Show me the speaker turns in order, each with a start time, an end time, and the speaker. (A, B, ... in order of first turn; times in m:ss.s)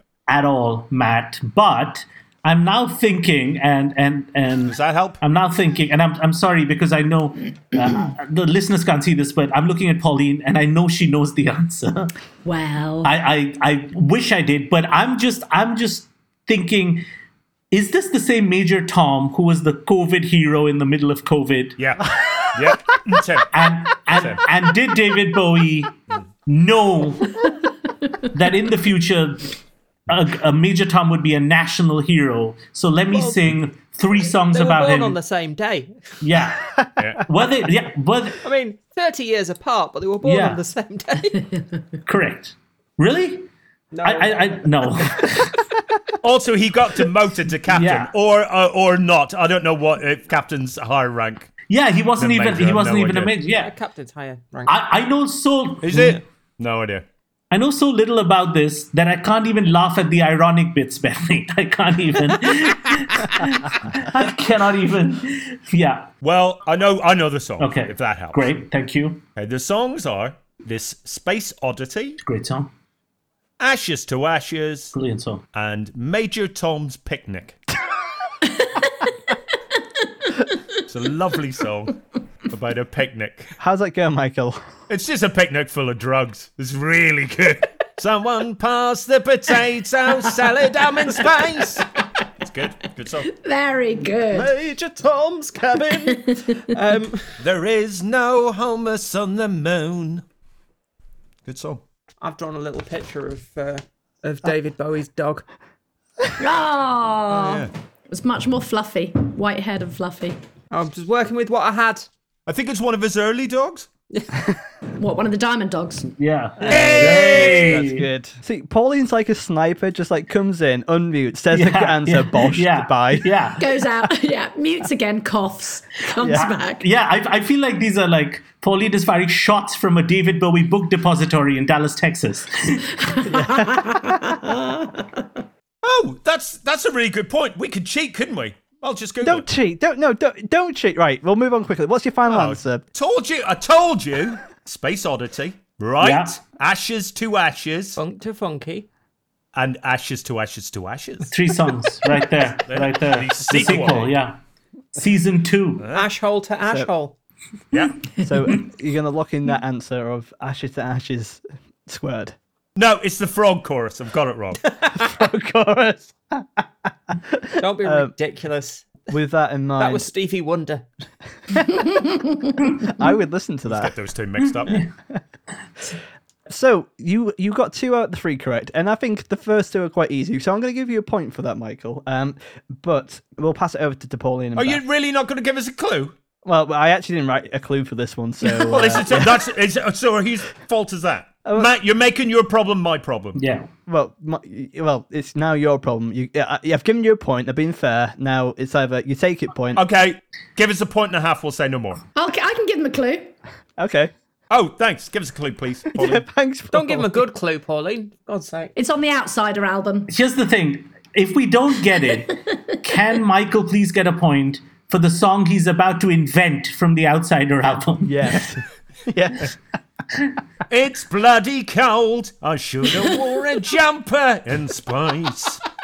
0:00.3-0:12.1 A
0:04.7-0:05.2 B
0:12.4-0:13.1 C
0:13.0-0:17.0 A
0:17.7-0:21.8 A
0:21.8-0:23.5 B
0:23.5-0:27.4 A
0:24.1-0:24.4 B
0:28.3-0:29.6 A
0:30.1-0:35.2 A
0:33.1-0:33.4 D
0:34.5-0:36.2 D
0:36.2-0:36.6 A
0:37.2-0:38.4 A
0:38.4-0:41.4 D
0:40.2-0:40.6 A
0:42.1-0:43.5 A
0:43.9-0:44.9 D
0:44.0-0:45.6 A
0:46.2-0:51.5 B
0:47.7-0:48.1 A
0:51.7-0:53.7 A
0:52.2-0:53.4 B
0:53.5-0:54.8 D
0:54.7-0:56.2 A
0:55.8-0:57.0 B
0:57.5-1:06.1 A
1:06.2-1:08.5 B
1:07.6-1:09.2 A
1:09.4-1:12.2 B
1:12.2-1:12.7 A
1:13.6-1:15.0 B
1:14.9-1:15.4 A
1:15.5-1:17.6 B
1:20.9-1:23.5 B
1:23.6-1:24.6 E
1:24.9-1:31.9 B
1:30.8-1:31.8 D
1:32.4-1:33.3 B
1:33.3-1:34.5 C
1:34.3-1:37.4 D
1:35.9-1:36.6 C
1:37.4-1:40.2 B
1:41.5-1:41.8 B
1:42.2-1:45.5 D
1:46.4-1:50.4 C
1:47.3-1:47.7 B
1:50.7-1:52.1 D
1:52.5-1:53.9 B
1:55.0-1:56.1 C
1:56.2-1:58.1 A
1:56.6-2:03.3 E
1:56.6-1:57.0 D
1:56.7-1:57.8 B
2:01.5-2:03.6 A
2:03.6-2:06.9 C
2:06.2-2:06.5 E
2:06.8-2:12.9 A
2:13.1-2:15.2 C
2:13.3-2:14.4 E
2:15.8-2:19.5 B
2:19.2-2:22.8 E
2:22.3-2:28.0 B
2:26.0-2:26.4 A
2:28.0-2:28.9 D
2:29.6-2:31.3 B
2:31.3-2:34.4 A
2:32.7-2:34.2 B
2:35.0-2:35.9 A
2:35.8-2:36.1 B
2:35.9-2:37.2 D
2:37.7-2:38.1 B
2:38.2-2:42.4 E
2:42.8-2:44.6 B
2:44.9-2:48.1 E
2:47.6-2:49.1 D
2:49.1-2:50.1 E
2:49.8-2:50.9 D
2:51.6-2:51.8 E
2:52.8-2:53.9 E
2:53.7-2:54.9 B
2:54.4-2:54.9 A
2:56.5-3:04.8 E
3:04.6-3:06.2 B
3:06.4-3:09.3 E
3:08.6-3:13.4 B
3:11.4-3:11.7 E
3:13.4-3:13.7 A
3:13.9-3:19.8 E
3:19.8-3:22.0 B
3:22.2-3:23.3 C
3:23.8-3:24.1 E
3:24.5-3:26.3 B
3:26.0-3:27.2 E
3:26.7-3:28.7 D
3:28.8-3:30.1 C
3:30.1-3:38.4 A
3:32.5-3:32.7 C
3:38.0-3:39.6 E
3:40.7-3:45.6 B